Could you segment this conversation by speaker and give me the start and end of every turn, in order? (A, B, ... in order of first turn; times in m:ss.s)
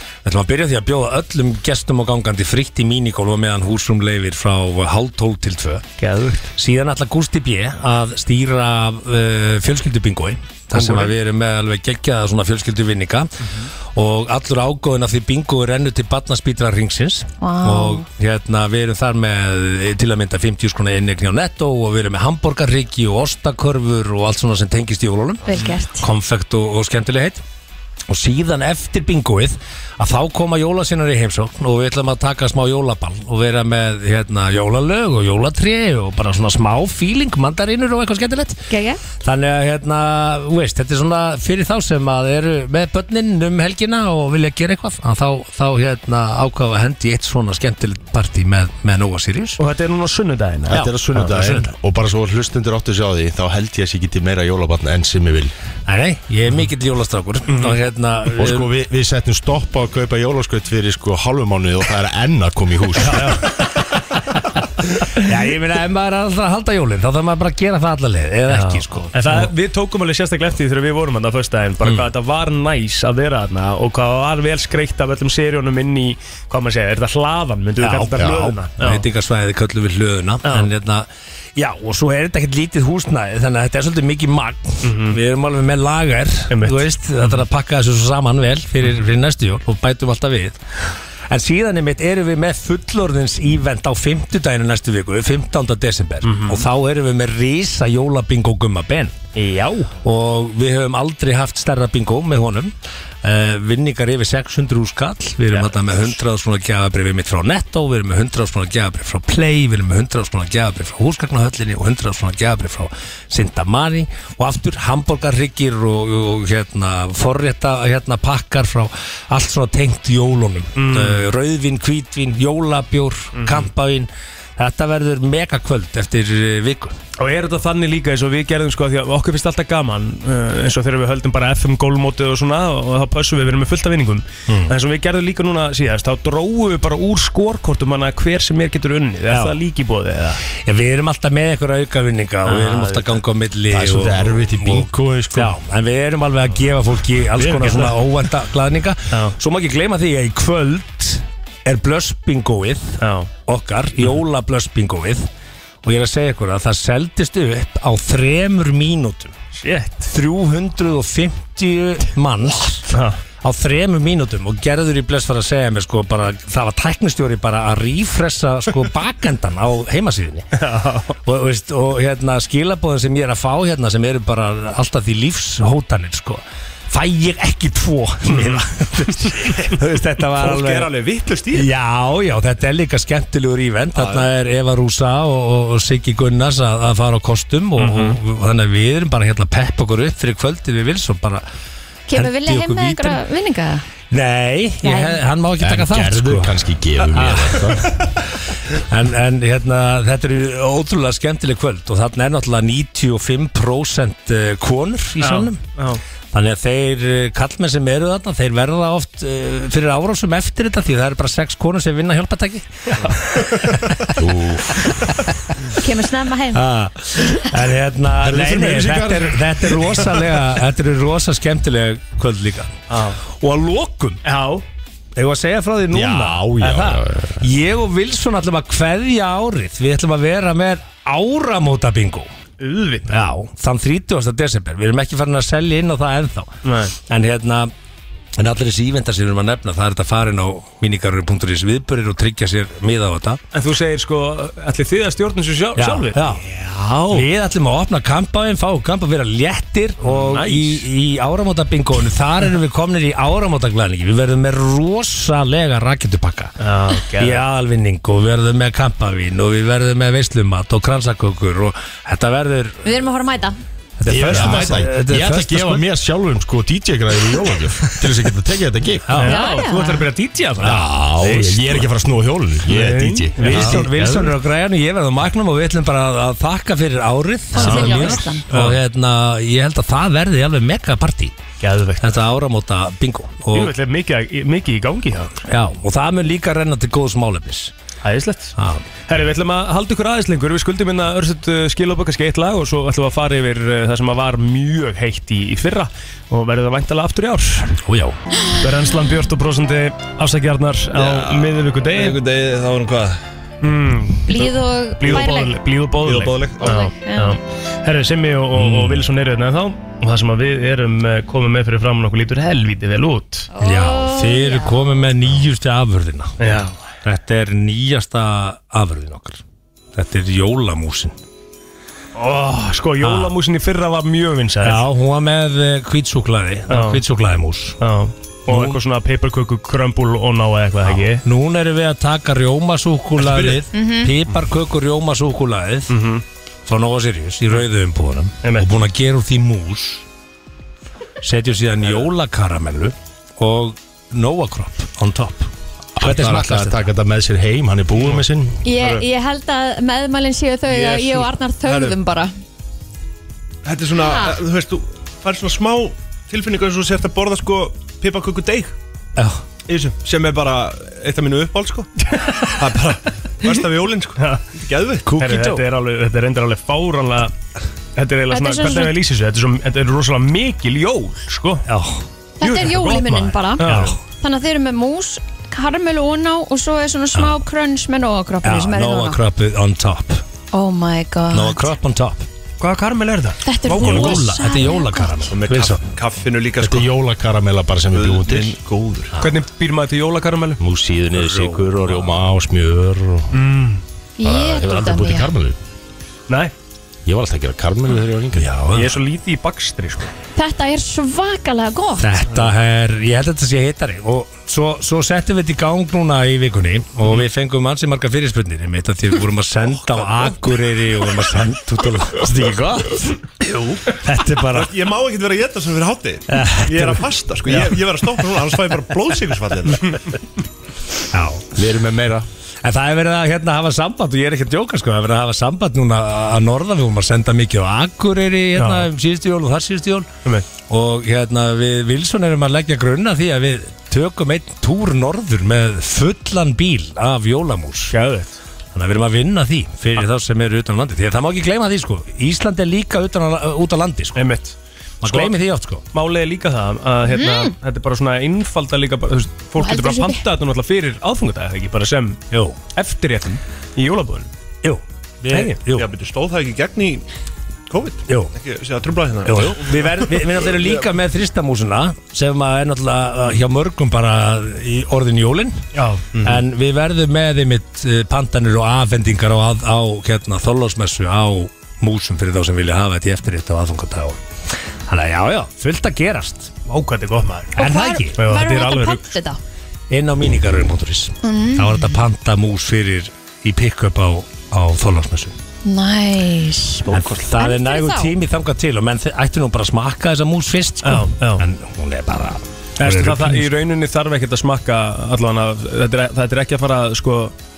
0:00.2-0:05.9 A
0:06.0-0:06.5 B
0:06.6-0:27.4 A
0:10.7-0:11.2 B
0:17.4-0:18.1 C
0:25.4-0:26.1 C
0:28.1-0:38.6 A
0:38.7-0:39.0 C
0:39.2-0:49.6 A
0:49.6-0:51.4 B
0:50.7-0:55.5 D
0:50.7-0:51.6 A
0:55.9-0:58.7 A
0:57.5-0:57.8 B
0:58.4-1:03.3 D
1:03.0-1:03.5 B
1:05.2-1:09.5 A
1:08.5-1:19.0 B
1:11.8-1:12.1 A
1:17.8-1:30.6 A
1:20.4-1:20.7 B
1:24.8-1:25.2 B
1:26.5-1:27.4 B
1:31.3-1:39.2 A
1:36.2-1:36.7 B
1:39.4-1:39.9 B
1:40.0-2:07.0 A
1:45.5-1:46.2 B
2:00.8-2:01.3 B
2:03.3-2:03.7 B
2:07.2-2:20.4 B
2:19.3-2:19.6 A
2:20.6-2:35.3 A
2:22.4-2:23.2 B
2:23.7-2:25.6 D
2:27.4-2:28.1 B
2:29.1-2:29.4 B
2:33.0-2:33.3 B
2:35.8-2:39.4 A
2:39.6-2:40.1 B
2:40.1-2:50.5 A
2:42.9-2:43.2 B
2:50.6-2:51.2 B
2:51.2-3:00.9 A
2:58.3-2:58.6 B
2:59.2-2:59.6 B
3:00.4-3:01.7 E
3:01.5-3:11.4 A
3:03.9-3:04.3 E
3:07.8-3:08.2 B
3:12.1-3:13.8 C
3:12.1-3:13.2 A
3:14.1-3:18.1 A
3:14.8-3:15.2 C
3:15.6-3:18.0 D
3:18.8-3:25.6 A
3:25.2-3:26.0 B
3:26.3-3:34.3 A
3:34.2-3:34.9 D
3:34.8-3:35.2 A
3:35.8-3:36.6 C
3:36.5-3:44.2 A
3:38.2-3:40.4 D
3:42.9-3:43.2 B
3:44.2-3:44.6 B
3:45.2-3:52.3 A
3:45.9-3:47.4 D
3:52.6-3:53.1 B
3:53.1-3:56.6 A
3:56.6-3:57.0 B
3:57.1-3:57.7 A
3:58.4-4:03.4 A
4:03.5-4:07.3 B
4:05.8-4:16.5 A
4:10.0-4:10.9 B
4:16.6-4:17.5 B
4:17.2-4:22.9 A
4:22.8-4:23.6 C
4:24.0-4:25.8 A
4:24.0-4:29.2 D
4:24.2-4:24.7 B
4:29.1-4:29.4 A
4:29.1-4:31.8 B
4:29.3-4:30.1 C
4:30.6-4:34.2 D
4:32.7-4:34.4 B
4:33.4-4:41.4 A
4:37.5-4:38.5 C
4:37.6-4:38.8 B
4:41.6-4:42.1 B
4:42.0-4:43.7 A
4:43.5-4:45.4 B
4:45.4-4:47.7 A
4:48.0-4:48.5 B
4:48.6-4:48.8 A
4:49.1-4:57.8 B
4:57.9-4:58.1 D
4:58.6-5:02.2 B
5:01.0-5:03.2 E
5:03.6-5:13.5 B
5:04.3-5:05.6 C
5:06.0-5:06.8 E
5:06.6-5:07.4 C
5:08.6-5:09.1 A
5:13.6-5:15.0 C
5:13.6-5:19.4 A
5:16.4-5:16.8 B
5:19.9-5:21.2 A
5:22.2-5:24.9 B
5:23.0-5:23.4 A
5:24.6-5:27.8 A
5:26.7-5:27.0 B
5:27.8-5:31.2 B
5:28.5-5:28.8 A
5:30.9-5:35.9 A
5:33.7-5:34.1 C
5:35.9-5:36.2 B
5:36.7-5:40.0 A
5:38.4-5:38.7 B
5:41.2-5:45.5 A
5:46.0-5:48.6 D
5:46.0-5:46.8 A
5:48.6-5:52.3 C
5:50.7-5:52.0 E
5:53.6-5:58.8 E
5:54.0-5:54.4 C
5:59.2-5:59.4 A
5:59.7-6:01.9 E
6:02.0-6:02.6 B
6:02.6-6:05.1 E
6:04.2-6:04.4 B
6:05.1-6:05.6 A
6:05.2-6:07.3 B
6:08.0-6:11.7 B
6:08.3-6:09.0 C
6:11.7-6:12.0 A
6:12.4-6:19.2 C
6:12.4-6:14.0 B
6:13.6-6:14.0 A
6:17.2-6:17.4 A
6:18.4-6:20.2 A
6:20.5-6:21.7 C
6:21.3-6:22.3 A
6:22.6-6:24.4 B
6:23.4-6:25.3 C
6:23.7-6:25.8 A
6:25.3-6:26.9 E
6:26.6-6:28.6 D
6:27.9-6:29.1 E
6:29.2-6:30.6 B
6:30.6-6:33.4 D
6:31.1-6:32.1 A
6:33.3-6:33.8 B
6:34.2-6:35.3 C
6:34.2-6:35.6 D
6:37.1-6:38.7 D
6:38.4-6:39.0 A
6:38.7-6:40.1 B
6:40.4-6:42.2 C
6:42.0-6:53.2 A
6:53.9-6:54.7 A
6:54.5-7:00.0 E
6:56.3-6:57.0 A
7:01.1-7:01.4 A
7:01.6-7:02.3 D
7:02.6-7:18.0 A
7:08.6-7:08.9 B
7:17.9-7:18.4 B
7:18.7-7:24.2 A
7:24.2-7:25.4 B
7:25.0-7:25.8 A
7:25.9-7:32.2 B
7:27.1-7:27.5 C
7:29.6-7:30.2 C
7:32.3-7:32.6 A
7:32.7-7:34.3 B
7:34.6-7:35.9 A
7:35.3-7:35.6 B
7:35.6-7:37.0 E
7:37.7-7:40.8 E
7:38.1-7:38.3 A
7:39.3-7:45.7 A
7:45.8-7:46.1 B
7:46.2-7:46.4 E
7:46.2-7:54.2 A
7:54.9-7:56.6 A
7:56.7-7:57.6 B
7:57.6-7:58.2 A
7:57.6-7:59.4 C
7:58.2-7:59.0 B
7:59.9-8:05.4 A
8:01.2-8:01.9 C
8:05.6-8:08.2 C
8:06.9-8:13.5 A
8:10.8-8:11.4 B
8:12.8-8:17.3 B